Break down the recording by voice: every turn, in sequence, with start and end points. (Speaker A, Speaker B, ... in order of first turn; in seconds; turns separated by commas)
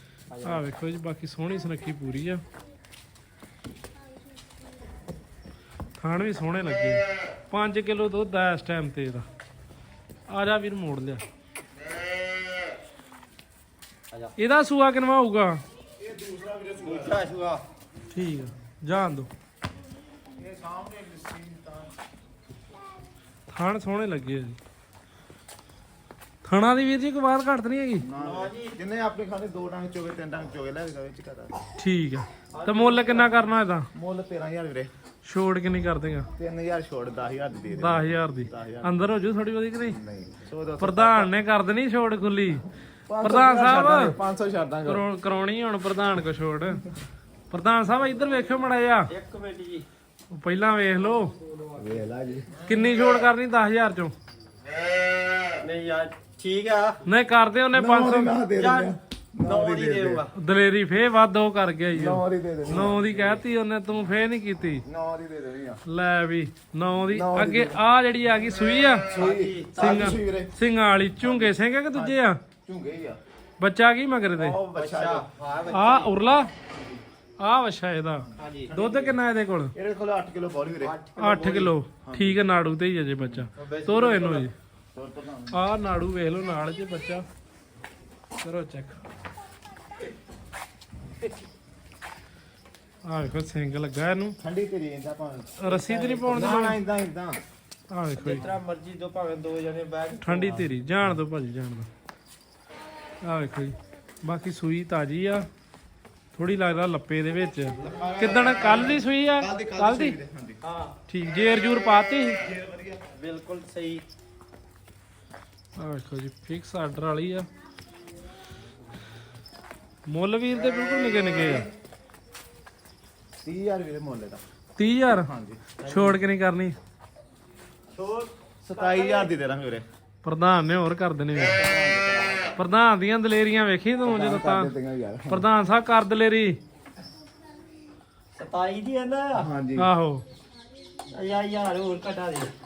Speaker A: 0.3-0.6, Speaker B: 0.4-2.4, Speaker B: 6.0-9.3, Speaker B: 10.3-11.2, Speaker B: 14.4-15.6, Speaker C: 16.0-17.2, Speaker A: 16.8-17.6, Speaker B: 18.1-19.3, Speaker C: 20.4-21.9, Speaker B: 23.5-24.6, Speaker B: 26.4-28.1, Speaker C: 28.0-31.6, Speaker A: 28.2-28.8, Speaker B: 31.8-33.9, Speaker A: 32.5-33.4, Speaker C: 33.9-34.9, Speaker B: 35.2-36.3, Speaker C: 36.4-39.0, Speaker B: 37.7-40.0, Speaker C: 39.9-41.3, Speaker B: 40.8-42.6, Speaker C: 43.1-45.0, Speaker B: 43.2-44.2, Speaker B: 44.9-46.9, Speaker B: 47.5-49.1, Speaker A: 49.1-49.9, Speaker B: 50.3-51.3, Speaker C: 51.8-52.6, Speaker B: 52.6-54.1, Speaker A: 55.6-57.0, Speaker B: 57.0-58.4, Speaker C: 57.7-60.2, Speaker A: 58.6-60.3, Speaker B: 60.3-64.8, Speaker C: 61.9-63.4, Speaker C: 64.8-65.8, Speaker B: 65.9-69.1, Speaker C: 67.1-67.8, Speaker A: 69.1-70.2, Speaker C: 69.1-70.5, Speaker B: 69.8-72.4, Speaker C: 71.2-73.2, Speaker B: 73.6-74.6, Speaker C: 74.4-75.3, Speaker A: 74.5-76.3, Speaker B: 75.7-76.5, Speaker B: 77.4-79.8, Speaker A: 78.4-78.8, Speaker C: 78.7-79.2, Speaker C: 79.8-81.0, Speaker A: 80.8-81.8, Speaker B: 81.2-84.5, Speaker C: 82.0-82.4, Speaker A: 83.5-84.5, Speaker C: 84.9-85.6, Speaker B: 85.5-87.2, Speaker B: 88.4-89.0, Speaker B: 93.0-94.4, Speaker C: 94.4-97.4, Speaker B: 95.6-96.8, Speaker A: 96.3-96.7, Speaker B: 97.9-98.5, Speaker A: 98.2-100.7, Speaker B: 100.2-101.9, Speaker B: 103.2-105.5, Speaker B: 106.3-110.2, Speaker A: 107.8-108.2, Speaker C: 107.8-110.6, Speaker A: 110.6-111.0, Speaker B: 111.1-112.4, Speaker C: 112.4-113.0, Speaker A: 113.2-114.0, Speaker B: 115.8-117.5, Speaker B: 120.1-121.7, Speaker C: 121.4-121.7, Speaker C: 123.4-124.4, Speaker B: 124.8-125.3, Speaker C: 125.1-125.6, Speaker A: 125.8-126.2, Speaker B: 125.8-126.8, Speaker A: 127.9-129.3, Speaker C: 128.7-129.8, Speaker B: 130.2-131.6, Speaker C: 131.4-132.5, Speaker B: 132.6-134.7, Speaker C: 134.1-135.5, Speaker B: 135.3-136.6, Speaker A: 138.4-139.5, Speaker C: 139.3-139.9, Speaker B: 139.8-140.2, Speaker A: 141.1-142.5